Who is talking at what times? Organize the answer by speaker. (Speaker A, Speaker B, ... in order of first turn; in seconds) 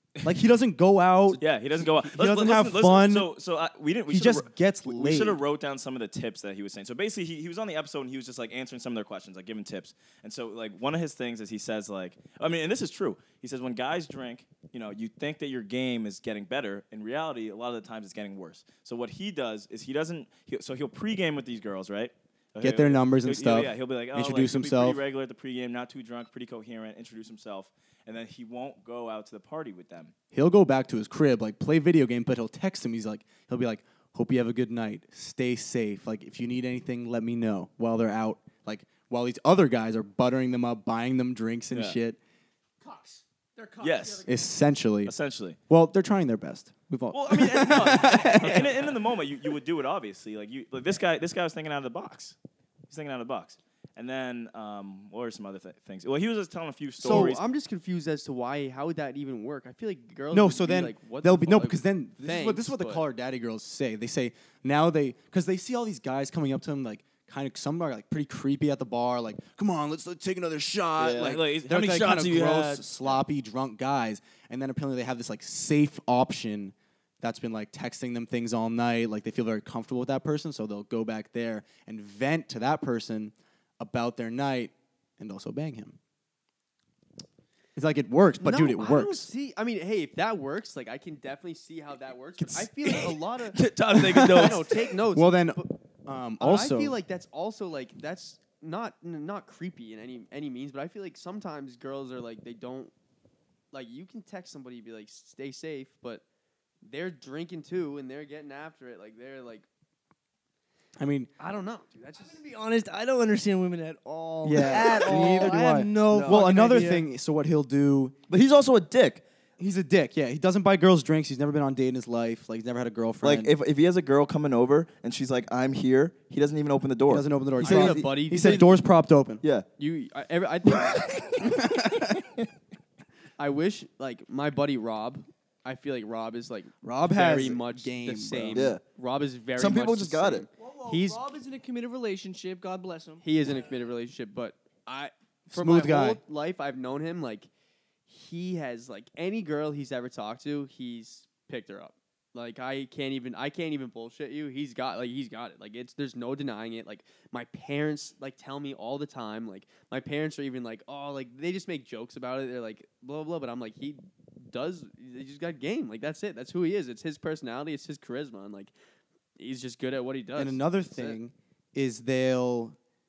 Speaker A: 0.2-3.3, 4.1-5.4, 22.6-25.0, 30.3-42.2, 44.2-45.1, 45.7-48.9, 57.0-57.3, 60.3-86.0, 87.8-89.3, 93.9-97.0, 111.0-111.3, 114.4-118.1, 119.6-123.5, 127.1-129.4, 131.4-131.9, 136.8-138.7, 145.5-146.2, 170.3-172.8
Speaker B: 1.4-30.1, 41.7-42.0, 43.8-44.2, 45.0-45.6, 47.1-52.4, 52.9-57.4, 71.0-73.2, 92.8-94.8
Speaker C: 42.8-44.3, 112.2-117.1, 140.6-143.2
Speaker D: 48.4-48.8, 57.0-63.0, 88.4-93.6, 94.2-95.8, 96.4-102.9, 103.7-106.2, 106.8-109.7, 111.4-112.4, 127.6-128.7, 129.8-131.2, 133.4-141.2, 143.2-147.5, 148.1-168.7, 169.4-171.2
Speaker E: 71.0-71.3, 115.1-115.5, 116.1-116.5, 118.3-119.2, 123.2-128.7, 129.4-129.7, 138.5-138.8, 139.6-140.5